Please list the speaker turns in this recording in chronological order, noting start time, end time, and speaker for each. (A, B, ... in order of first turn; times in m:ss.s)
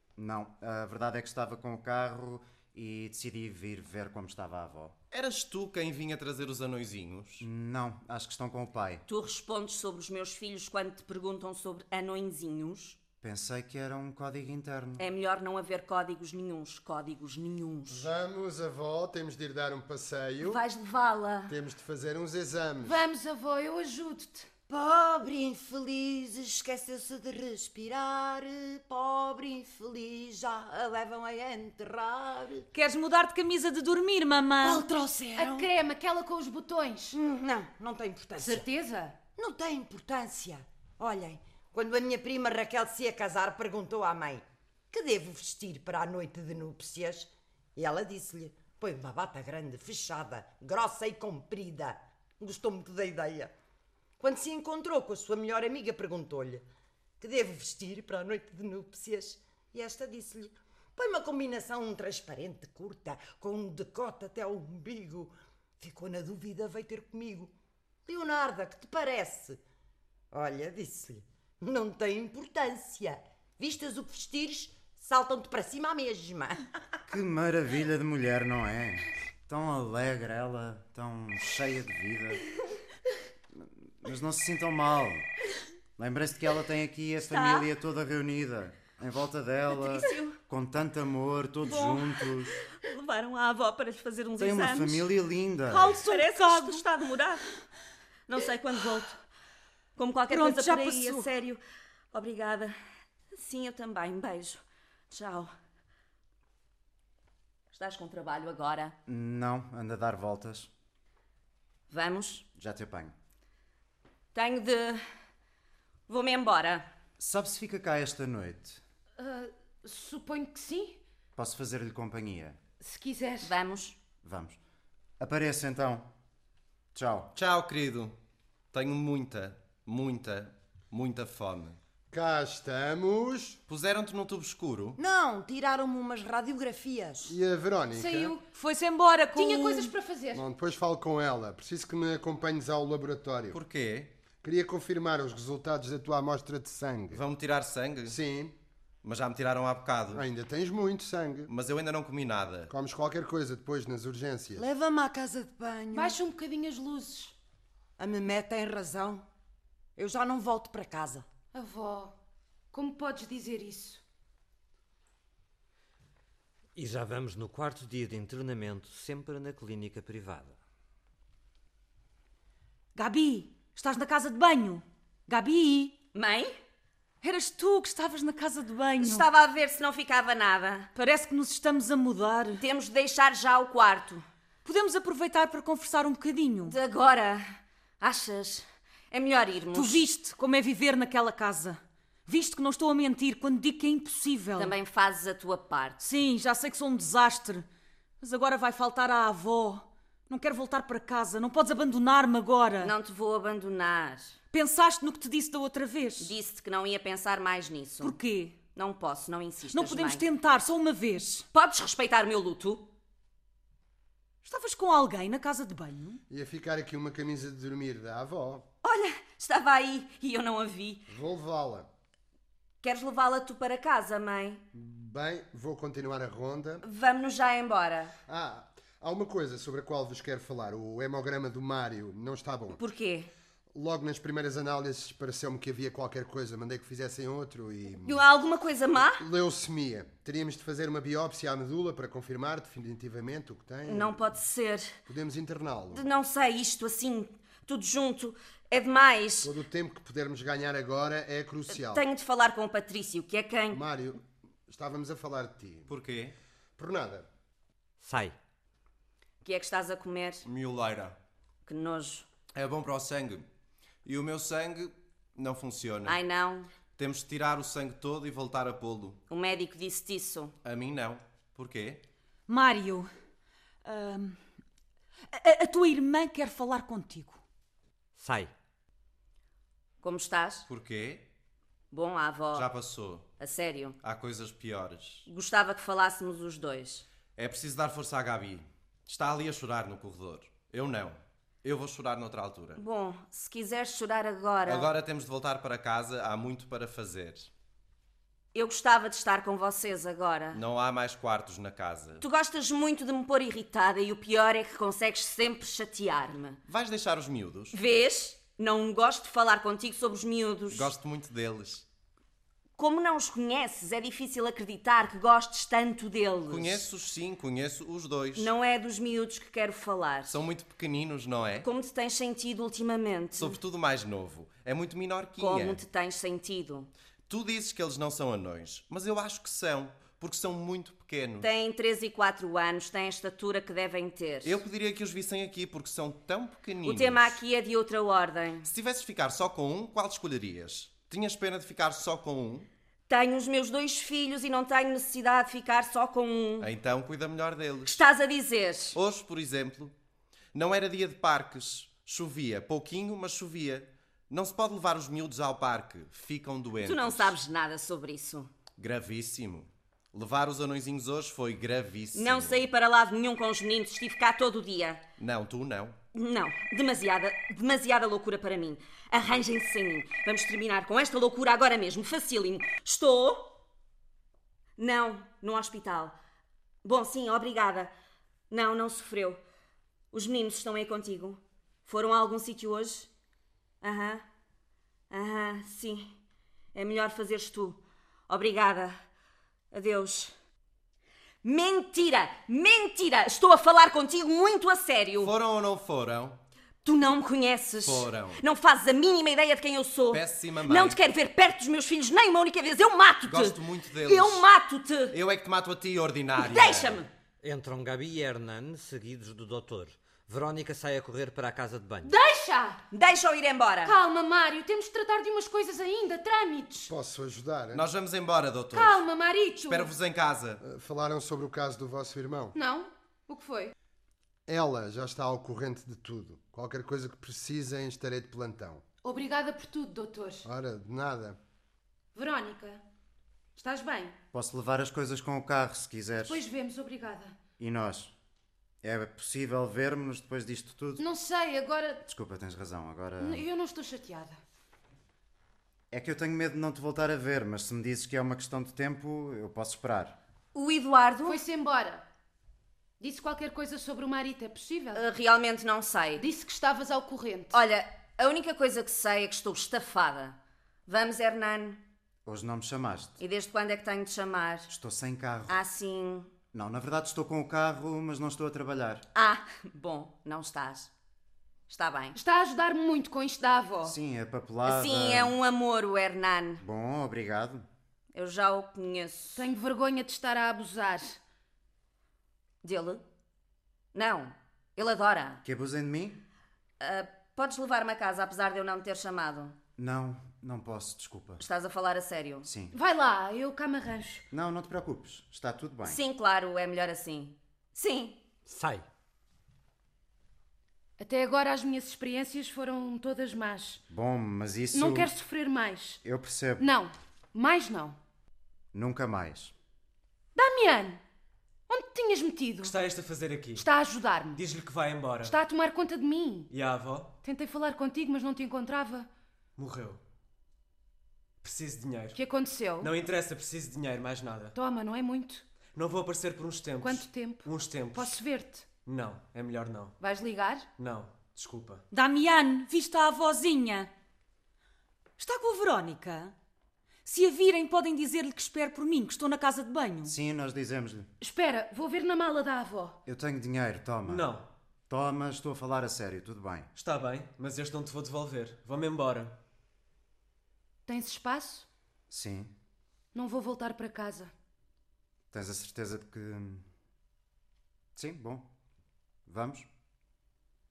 0:00.2-0:05.0 A
0:05.1-0:07.4 B
0:07.4-0:09.0 A
0:09.1-0:13.0 C
0:13.2-0:15.0 A
0:15.0-0:18.1 C
0:17.9-0:20.6 D
0:20.4-0:21.6 C
0:21.5-0:23.0 D
0:22.8-0:24.5 E
0:24.7-0:32.7 F
0:32.7-0:34.8 G
0:34.6-0:35.7 F
0:35.4-0:37.2 E
0:37.1-0:38.6 F
0:38.4-0:39.2 E
0:39.4-0:53.5 F
0:54.2-0:56.6 F
0:57.2-1:07.5 F
1:08.0-1:09.6 F
1:10.3-1:16.6 F
1:17.1-1:22.4 A
1:23.5-1:25.3 A
1:26.0-1:32.6 A
1:27.2-1:27.7 C
1:29.7-1:30.4 C
1:31.6-1:35.1 C
1:34.4-1:35.9 A
1:35.7-1:36.9 G
1:35.9-1:37.4 C
1:38.3-1:39.2 C
1:40.0-1:41.6 C
1:40.3-1:41.3 G
1:42.1-1:42.8 C
1:43.3-1:45.5 C
1:47.7-1:48.9 C
1:49.0-1:50.7 A
1:51.9-1:52.4 C
1:52.5-1:53.1 A
1:54.3-1:55.0 C
1:56.1-1:56.9 C
1:57.2-1:58.8 A
1:59.2-2:01.0 E
2:01.4-2:02.6 A
2:02.8-2:03.5 E
2:03.4-2:04.0 C
2:04.2-2:04.6 A
2:05.2-2:06.1 A
2:06.9-2:07.3 A
2:07.4-2:08.2 B
2:08.7-2:11.8 B
2:12.1-2:13.6 D
2:13.7-2:15.0 B
2:15.0-2:17.4 F
2:17.2-2:18.3 D
2:17.9-2:18.4 E
2:18.4-2:19.9 G
2:19.3-2:20.4 E
2:20.3-2:23.6 D
2:23.5-2:24.1 B
2:24.4-2:27.2 D
2:27.1-2:28.2 B
2:28.1-2:28.5 D
2:29.0-2:30.2 B
2:30.1-2:31.5 D
2:31.5-2:32.7 B
2:32.7-2:34.6 D
2:34.5-2:36.2 F
2:35.9-2:37.3 E
2:38.0-2:39.2 F
2:40.0-2:41.2 F
2:41.5-2:42.1 E
2:42.7-2:44.0 E
2:46.8-2:50.6 H
2:52.9-2:56.0 G
2:56.1-2:56.5 C
2:57.2-2:59.3 G
2:59.0-3:00.9 C
3:00.9-3:02.6 G
3:02.6-3:04.2 C
3:04.6-3:06.8 G
3:06.6-3:07.4 C
3:08.0-3:10.0 C
3:09.7-3:14.7 G
3:14.6-3:16.0 C
3:16.0-3:17.6 G
3:18.2-3:22.9 G
3:22.8-3:24.4 C
3:24.5-3:26.3 G
3:26.2-3:28.2 C
3:28.0-3:28.6 G
3:28.7-3:30.2 C
3:29.7-3:31.4 G
3:31.5-3:32.9 C
3:34.4-3:36.2 G
3:36.3-3:38.7 D
3:38.8-3:41.0 C
3:41.1-3:41.9 D
3:42.8-3:44.6 C
3:44.7-3:46.8 D
3:46.8-3:48.1 C
3:48.3-3:52.8 D
3:52.8-3:53.3 C
3:53.7-3:58.2 D
3:58.0-3:59.2 C
3:59.2-4:04.2 D
4:03.9-4:05.0 C
4:05.1-4:06.0 D
4:05.9-4:09.5 C
4:09.4-4:12.0 D
4:11.7-4:13.8 C
4:13.7-4:15.9 D
4:15.9-4:16.3 B
4:16.8-4:17.3 D
4:18.0-4:18.3 H
4:19.4-4:20.4 C
4:20.4-4:21.2 B
4:21.6-4:22.3 C
4:22.5-4:23.5 B
4:24.0-4:26.2 B
4:26.0-4:26.7 C
4:27.0-4:29.2 B
4:29.3-4:30.5 C
4:30.6-4:32.0 B
4:32.5-4:33.1 G
4:33.8-4:34.4 G
4:35.3-4:37.4 G
4:38.2-4:38.5 H
4:40.0-4:40.6 C
4:40.7-4:41.2 B
4:41.9-4:42.7 C
4:42.5-4:43.3 B
4:43.4-4:44.0 C
4:44.0-4:45.3 B
4:45.2-4:47.0 C
4:47.4-4:52.8 B
4:52.8-4:54.9 C
4:54.6-4:57.5 B
4:58.5-5:00.6 C
5:00.5-5:02.2 B
5:02.2-5:06.6 C
5:06.7-5:07.8 B
5:07.7-5:10.9 C
5:10.7-5:11.8 B
5:12.8-5:16.8 C
5:16.5-5:18.5 B
5:18.3-5:20.4 C
5:20.3-5:21.7 B
5:21.6-5:23.6 C
5:23.4-5:25.8 B
5:25.4-5:26.9 C
5:27.3-5:31.5 B
5:31.4-5:34.6 C
5:34.4-5:37.4 B
5:36.8-5:38.7 C
5:38.6-5:42.7 B
5:43.1-5:46.7 C
5:46.6-5:48.0 B
5:47.8-5:49.0 C
5:48.9-5:49.9 B
5:50.5-5:57.4 B
5:56.8-5:58.5 C
5:58.8-6:02.7 B
6:02.1-6:05.0 C
6:05.2-6:06.0 B
6:06.1-6:13.6 C
6:14.8-6:16.2 C
6:16.8-6:17.9 C
6:18.5-6:19.4 C
6:20.1-6:23.1 C
6:23.8-6:24.2 C
6:25.1-6:26.1 C
6:26.7-6:29.0 C
6:29.7-6:30.3 C
6:31.4-6:35.3 C
6:35.2-6:36.4 B
6:36.8-6:45.2 C
6:37.8-6:38.4 B
6:40.1-6:41.0 B
6:43.3-6:44.4 B
6:45.1-6:47.0 B
6:46.4-6:47.1 C
6:47.4-6:52.1 H
6:52.0-6:52.8 E
6:52.9-6:54.0 C
6:53.8-6:56.9 E
6:56.9-6:57.8 D
6:57.7-6:59.0 B
6:58.7-6:59.9 E
6:59.6-7:00.6 B
7:00.6-7:02.6 D
7:02.5-7:03.7 E
7:04.5-7:08.8 D
7:09.0-7:10.4 E
7:10.4-7:11.4 D
7:12.1-7:12.8 E
7:13.6-7:14.2 E
7:14.3-7:16.4 A
7:16.3-7:17.4 E
7:17.6-7:18.1 A
7:18.8-7:21.0 A
7:21.0-7:22.0 E
7:22.0-7:23.4 A
7:23.2-7:24.4 E
7:25.9-7:30.2 A
7:30.5-7:31.4 C
7:31.2-7:32.0 E
7:33.0-7:35.0 E
7:34.9-7:36.2 C
7:36.2-7:37.5 E
7:37.5-7:41.8 C
7:42.2-7:43.2 A
7:43.2-7:44.7 C
7:44.7-7:45.6 A
7:45.5-7:46.3 C
7:46.5-7:49.0 A
7:49.1-7:50.9 C
7:51.7-7:52.2 C
7:52.1-7:53.9 E
7:53.8-7:55.3 A
7:54.6-7:56.6 C
7:56.6-7:57.6 A
7:58.1-7:59.5 C
7:59.4-8:01.2 E
8:02.6-8:03.0 C
8:03.9-8:05.4 C
8:05.4-8:06.2 A
8:06.8-8:09.6 C
8:09.8-8:11.4 A
8:11.4-8:12.5 C
8:12.4-8:12.7 A
8:12.7-8:14.2 E
8:14.3-8:16.0 A
8:15.8-8:18.2 C
8:18.4-8:18.8 H
8:21.0-8:23.8 E
8:23.9-8:25.1 A
8:24.7-8:26.0 E
8:26.0-8:26.6 A
8:26.6-8:28.0 E
8:28.7-8:29.5 A
8:30.4-8:31.0 E
8:31.7-8:32.7 E
8:32.6-8:33.6 I
8:33.5-8:34.4 E
8:34.4-8:35.4 I
8:35.2-8:36.5 E
8:36.5-8:37.1 I
8:37.2-8:39.1 E
8:39.6-8:40.0 I
8:41.4-8:42.2 I
8:42.1-8:42.9 E
8:42.8-8:44.6 I
8:44.5-8:45.4 E
8:45.7-8:48.2 I
8:46.8-8:48.7 E
8:48.8-8:50.0 I
8:50.0-8:50.7 E
8:50.8-8:51.8 I
8:51.9-8:53.9 G
8:55.2-8:56.3 G
8:57.0-9:00.1 G
9:00.0-9:01.1 A
9:01.2-9:03.0 E
9:03.0-9:04.2 A
9:04.0-9:04.5 I
9:04.9-9:06.7 A
9:06.7-9:09.4 I
9:10.8-9:11.6 E
9:12.1-9:12.5 A
9:13.1-9:14.3 E
9:15.3-9:16.6 A
9:17.9-9:18.4 A
9:19.2-9:19.7 A